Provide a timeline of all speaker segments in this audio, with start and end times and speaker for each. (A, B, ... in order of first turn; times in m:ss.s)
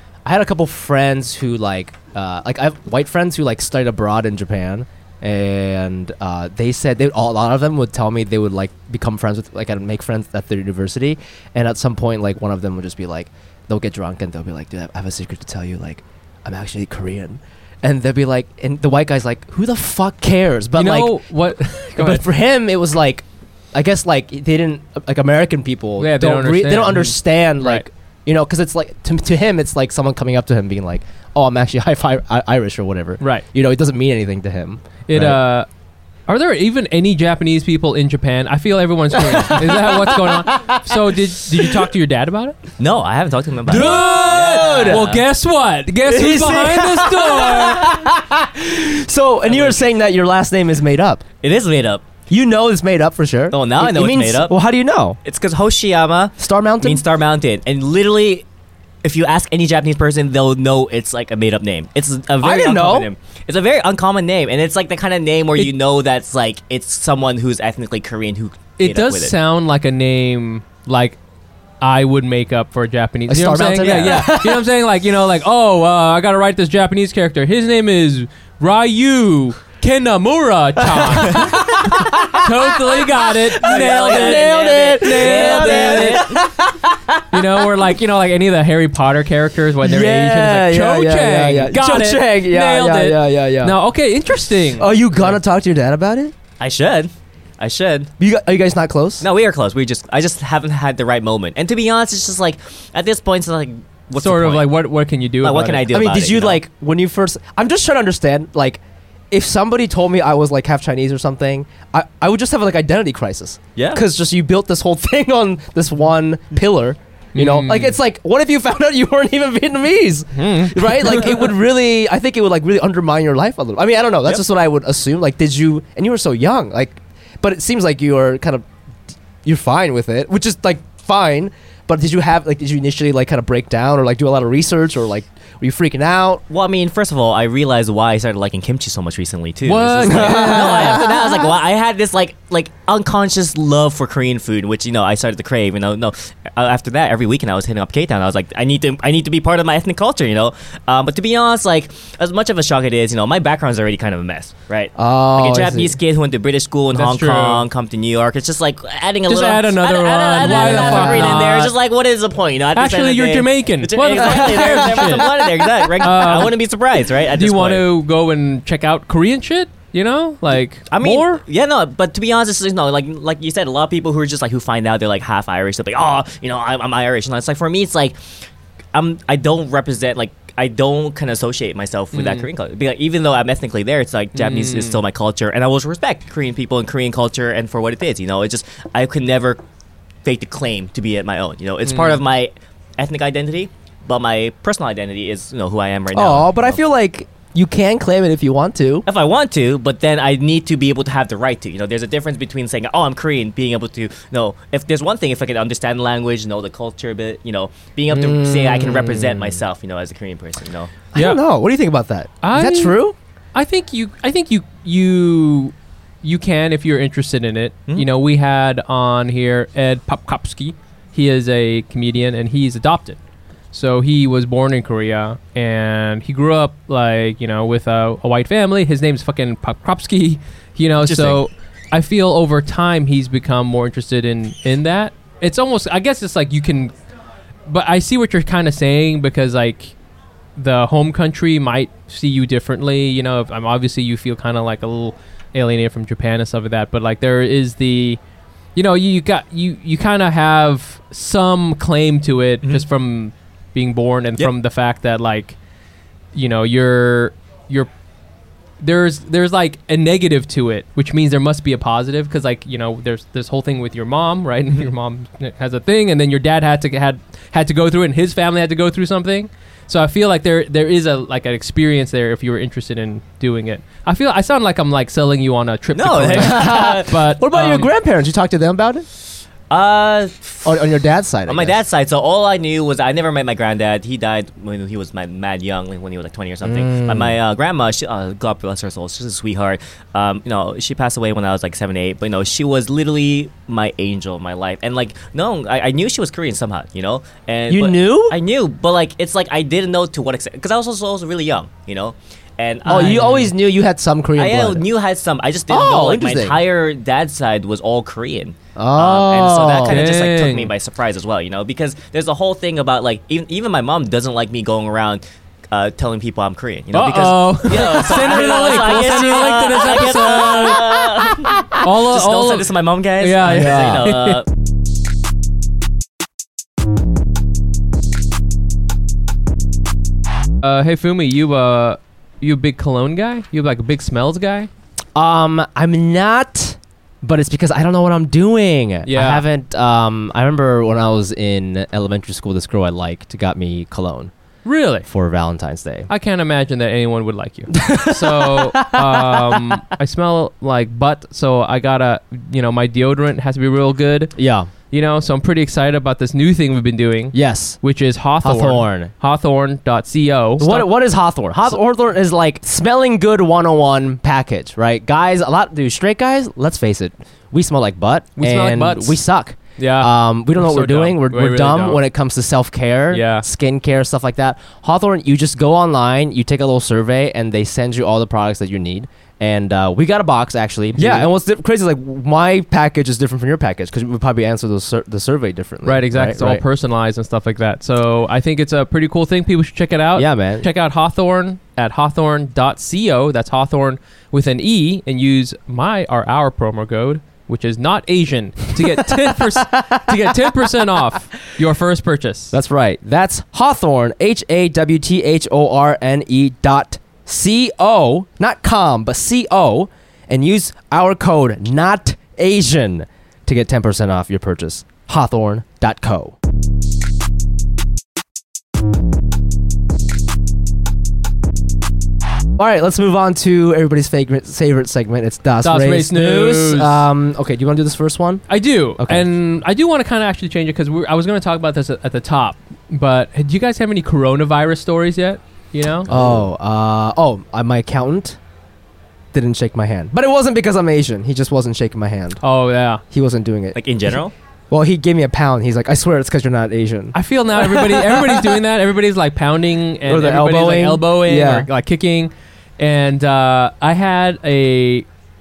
0:00.2-0:21.2 A
0:20.8-0:22.2 B
0:22.0-0:35.4 A
0:26.0-0:27.8 B
0:35.1-0:35.7 B
0:36.3-0:42.6 B
0:39.2-0:41.9 A
0:42.8-0:45.2 C
0:43.7-0:45.1 A
0:43.7-0:47.9 B
0:46.1-0:51.2 A
0:49.5-0:49.8 C
0:51.4-0:52.1 C
0:52.3-0:55.2 A
0:53.5-0:54.6 C
0:55.2-0:58.4 C
0:56.4-0:57.0 A
0:59.0-1:09.4 C
1:02.4-1:03.1 A
1:08.8-1:11.2 B
1:11.8-1:26.3 B
1:13.3-1:14.6 A
1:20.8-1:27.5 A
1:23.6-1:26.4 C
1:27.3-1:35.3 B
1:29.8-1:33.8 A
1:34.8-1:36.3 A
1:36.6-1:38.1 C
1:38.2-1:39.3 A
1:39.2-1:44.7 C
1:44.2-1:45.8 B
1:45.4-1:46.6 C
1:45.9-2:08.6 A
1:53.8-1:54.0 C
1:57.4-1:58.0 B
2:00.4-2:01.4 B
2:09.4-2:16.4 A
2:16.5-2:47.9 C
2:19.6-2:21.1 B
2:20.1-2:21.2 A
2:35.0-2:36.0 A
2:37.0-2:37.6 B
2:39.3-2:41.7 B
2:40.6-2:41.2 A
2:42.8-2:46.6 B
2:44.3-2:44.9 A
2:47.4-2:51.4 B
2:50.9-2:58.2 C
2:58.9-3:09.6 C
3:02.1-3:02.5 B
3:04.4-3:05.0 B
3:10.2-3:16.8 C
3:11.8-3:12.2 B
3:16.1-3:19.0 A
3:19.1-3:31.0 C
3:28.1-3:29.6 A
3:31.1-3:33.2 A
3:32.4-3:33.0 B
3:33.6-3:43.2 B
3:43.7-3:56.9 B
3:51.0-3:51.4 C
3:57.7-4:00.0 B
4:00.6-4:08.2 B
4:08.8-4:15.6 B
4:16.3-4:17.9 B
4:18.8-4:37.9 B
4:36.0-4:37.2 C
4:36.4-4:39.1 A
4:39.7-4:40.8 C
4:40.6-4:41.8 A
4:41.5-5:03.4 C
4:46.6-4:47.4 A
4:57.7-4:58.4 A
5:02.8-5:04.9 A
5:02.9-5:03.5 B
5:04.4-5:24.5 C
5:05.7-5:06.6 A
5:08.8-5:10.0 A
5:09.9-5:10.7 B
5:16.9-5:21.0 B
5:17.8-5:18.6 A
5:20.4-5:20.9 A
5:21.8-5:24.4 B
5:23.4-5:24.1 A
5:30.6-5:34.7 B
5:35.2-5:44.3 A
5:39.1-5:39.4 B
5:44.6-5:45.1 B
5:45.0-5:46.1 A
5:46.1-5:54.3 B
5:47.7-5:49.8 A
5:54.4-5:54.7 A
5:54.9-6:00.9 B
5:57.3-5:57.8 A
5:58.4-5:59.1 A
6:00.6-6:26.6 A
6:08.4-6:09.2 B
6:09.8-6:12.0 B
6:13.1-6:13.5 B
6:21.0-6:21.3 B
6:25.8-6:42.6 B
6:30.2-6:30.7 A
6:38.8-6:40.7 A
6:42.5-6:56.4 A
7:02.6-7:09.3 A
7:05.6-7:07.0 B
7:08.5-7:16.1 B
7:16.1-7:18.4 A
7:16.1-7:16.4 C
7:19.3-7:22.4 A
7:22.4-7:23.0 B
7:23.1-7:28.6 A
7:23.8-7:24.3 C
7:27.1-7:35.1 B
7:30.0-7:31.7 A